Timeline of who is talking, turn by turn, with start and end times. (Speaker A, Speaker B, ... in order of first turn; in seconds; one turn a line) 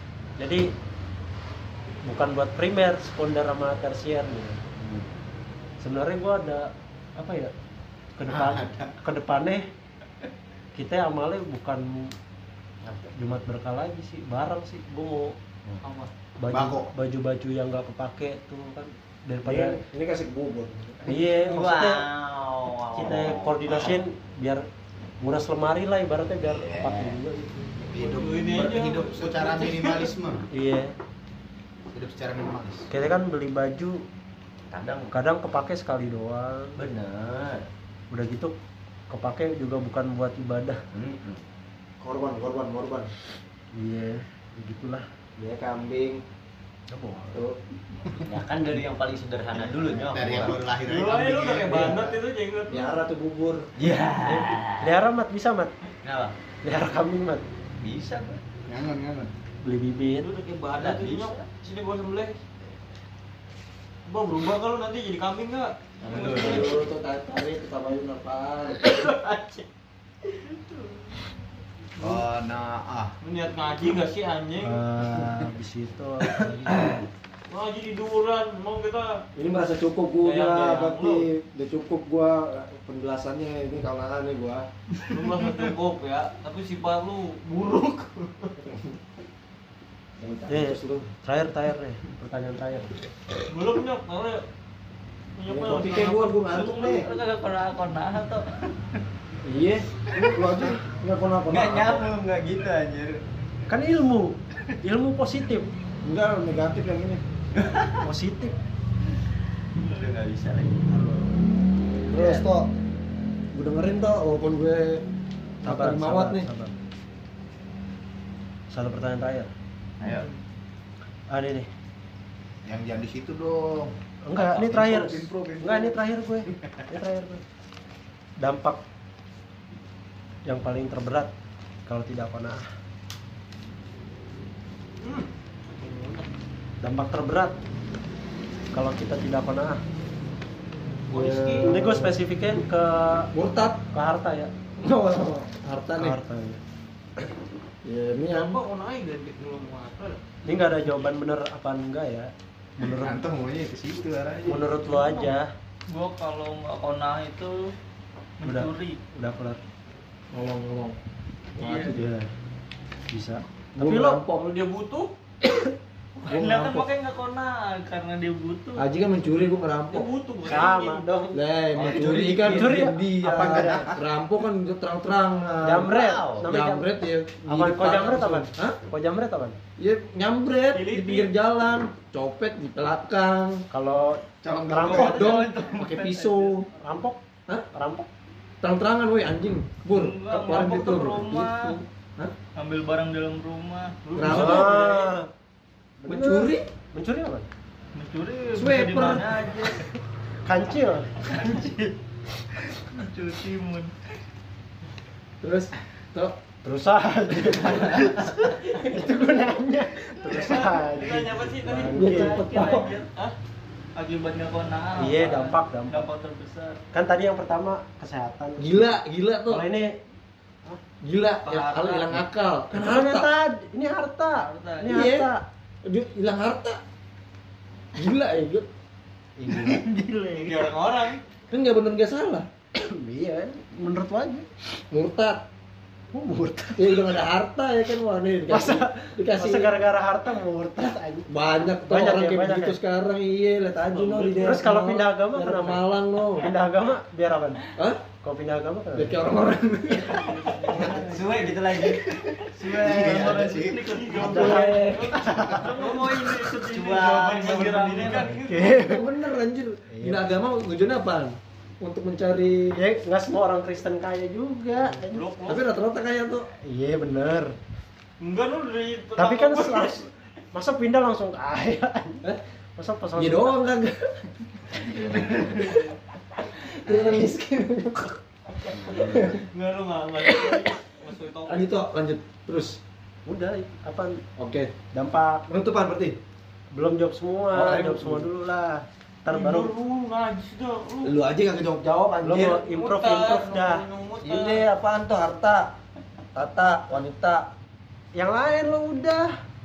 Speaker A: 0.4-0.7
Speaker A: 2.0-4.6
Speaker A: 5.8-7.5
Speaker A: 8.2-9.7
Speaker B: 8.3-8.9
Speaker A: 10.8-12.1
Speaker A: 12.9-15.3
Speaker C: 15.8-16.1
Speaker A: 16.4-19.8
Speaker B: 16.5-16.9
Speaker D: 19.4-21.3
Speaker A: 21.1-22.1
Speaker E: 21.4-24.0
Speaker A: 22.9-24.7
Speaker A: 25.2-27.7
Speaker B: 27.8-30.4
Speaker C: 28.0-30.1
Speaker A: 30.5-30.9
Speaker B: 31.9-32.9
Speaker A: 32.9-34.0
Speaker E: 34.7-35.1
Speaker A: 35.1-36.8
Speaker E: 36.8-37.7
Speaker A: 38.1-38.5
Speaker A: 39.1-40.8
Speaker E: 40.9-41.4
Speaker D: 42.0-43.1
Speaker A: 43.7-45.1
Speaker D: 45.4-46.2
Speaker A: 46.9-47.4
Speaker D: 47.3-47.6
Speaker E: 48.2-50.6
Speaker B: 49.5-52.2
Speaker C: 50.8-52.9
Speaker D: 52.7-53.7
Speaker E: 53.8-55.0
Speaker A: 54.8-55.7
Speaker E: 56.0-56.3
Speaker A: 56.6-57.5
Speaker E: 57.8-58.4
Speaker B: 58.7-59.3
Speaker A: 59.6-60.3
Speaker C: 60.2-62.4
Speaker E: 60.8-61.3
Speaker C: 64.1-66.8
Speaker D: 66.0-69.0
Speaker E: 66.1-66.6
Speaker C: 68.8-69.7
Speaker C: 70.3-71.0
Speaker B: 72.0-73.2
Speaker C: 73.2-74.9
Speaker A: 74.6-77.0
Speaker D: 76.7-77.0
Speaker C: 77.5-79.2
Speaker D: 79.4-84.7
Speaker C: 80.2-81.3
Speaker C: 85.1-88.6
Speaker D: 90.2-91.1
Speaker A: 90.5-92.9
Speaker C: 93.5-94.4
Speaker C: 95.4-96.6
Speaker D: 95.5-97.1
Speaker F: 96.5-98.6
Speaker A: 99.5-99.9
Speaker D: 100.1-102.1
Speaker E: 101.5-103.2
Speaker A: 103.7-105.7
Speaker D: 106.0-107.2
Speaker E: 107.5-108.0
Speaker A: 108.0-108.5
Speaker E: 109.8-111.2
Speaker E: 112.1-112.5
Speaker D: 112.1-112.7
Speaker D: 113.5-115.0
Speaker D: 115.6-116.5
Speaker A: 115.6-116.7
Speaker A: 118.7-119.5
Speaker E: 120.0-120.3
Speaker A: 121.3-121.7
Speaker B: 122.7-126.0
Speaker A: 124.2-127.4
Speaker B: 126.5-126.8
Speaker A: 128.4-128.8
Speaker A: 130.5-131.3
Speaker A: 131.9-132.7
Speaker C: 135.0-136.3
Speaker A: 136.8-137.6
Speaker A: 138.7-139.8
Speaker C: 141.1-142.0
Speaker D: 141.1-142.2
Speaker A: 141.6-143.3
Speaker D: 143.3-143.8
Speaker A: 143.9-144.5
Speaker D: 144.8-146.2
Speaker A: 146.0-146.6
Speaker D: 147.8-148.6
Speaker C: 148.3-150.2
Speaker A: 150.4-153.2
Speaker B: 152.8-154.7
Speaker A: 154.5-155.5
Speaker F: 155.9-157.7
Speaker F: 158.4-159.0
Speaker A: 158.4-159.6
Speaker D: 160.3-160.9
Speaker D: 161.6-162.0
Speaker F: 161.6-161.9
Speaker A: 161.8-162.3
Speaker A: 163.1-164.2
Speaker D: 163.8-164.4
Speaker C: 163.8-165.1
Speaker D: 166.3-166.9
Speaker F: 166.3-168.9
Speaker D: 168.8-170.1
Speaker C: 169.9-171.1
Speaker A: 170.5-171.4
Speaker D: 171.3-178.8
Speaker E: 171.8-172.8
Speaker B: 171.8-172.4
Speaker A: 172.3-173.9
Speaker B: 173.3-173.9
Speaker A: 175.6-176.9
Speaker A: 177.5-179.6
Speaker D: 179.8-183.6
Speaker C: 180.7-181.3
Speaker A: 183.7-185.4
Speaker D: 184.4-186.7
Speaker F: 184.8-186.6
Speaker A: 186.8-187.2
Speaker A: 187.7-188.1
Speaker D: 188.6-192.3
Speaker F: 189.9-191.8
Speaker F: 192.6-194.0
Speaker C: 194.0-195.1
Speaker D: 194.2-195.1
Speaker A: 194.2-195.3
Speaker A: 196.0-197.5
Speaker D: 196.0-196.7
Speaker F: 197.9-199.8
Speaker D: 198.5-199.7
Speaker A: 200.4-201.2
Speaker C: 201.3-201.9
Speaker F: 201.3-201.7
Speaker F: 202.9-203.9
Speaker D: 205.4-206.3
Speaker A: 206.6-212.4
Speaker C: 210.4-213.4
Speaker D: 211.8-212.9
Speaker F: 212.0-213.1
Speaker F: 214.0-216.8
Speaker A: 215.0-216.0
Speaker A: 216.9-220.0
Speaker D: 218.6-219.7
Speaker D: 221.0-223.3
Speaker F: 221.4-222.2
Speaker A: 222.7-225.4
Speaker F: 224.3-225.0
Speaker D: 224.8-225.3
Speaker D: 225.8-226.8
Speaker D: 227.9-228.7
Speaker A: 229.4-230.4
Speaker C: 230.3-231.2
Speaker D: 231.5-232.5
Speaker A: 232.8-234.5
Speaker D: 234.9-235.5
Speaker A: 236.1-237.2
Speaker D: 236.8-239.8
Speaker A: 238.5-242.8
Speaker D: 241.3-246.5
Speaker C: 243.9-244.3
Speaker A: 244.3-247.7
Speaker D: 247.8-248.0
Speaker A: 248.2-249.2
Speaker D: 248.9-250.9
Speaker C: 249.9-251.2
Speaker F: 250.7-251.0
Speaker E: 250.9-252.5
Speaker B: 251.9-254.4
Speaker F: 252.6-254.9
Speaker C: 253.9-258.7
Speaker A: 254.1-255.6
Speaker D: 254.2-255.5
Speaker F: 255.5-258.4
Speaker A: 258.3-259.0
Speaker D: 258.6-262.8
Speaker A: 259.9-260.3
Speaker A: 262.8-265.3
Speaker C: 264.8-265.7
Speaker D: 265.5-266.5
Speaker A: 266.6-267.6
Speaker C: 268.2-270.0
Speaker A: 269.2-273.6
Speaker D: 273.2-274.2
Speaker D: 274.9-275.9
Speaker E: 275.0-275.5
Speaker D: 276.4-278.2
Speaker E: 278.7-279.3
Speaker C: 278.9-281.7
Speaker D: 279.0-279.4
Speaker D: 280.2-280.8
Speaker D: 281.4-282.8
Speaker A: 283.3-284.2
Speaker D: 284.4-284.7
Speaker A: 284.9-285.5
Speaker D: 285.5-286.2
Speaker A: 286.7-289.7
Speaker D: 287.5-288.3
Speaker C: 289.3-291.1
Speaker D: 291.0-292.7
Speaker A: 292.2-293.9
Speaker C: 292.6-294.7
Speaker D: 294.2-295.8
Speaker D: 296.3-297.5
Speaker A: 298.1-299.3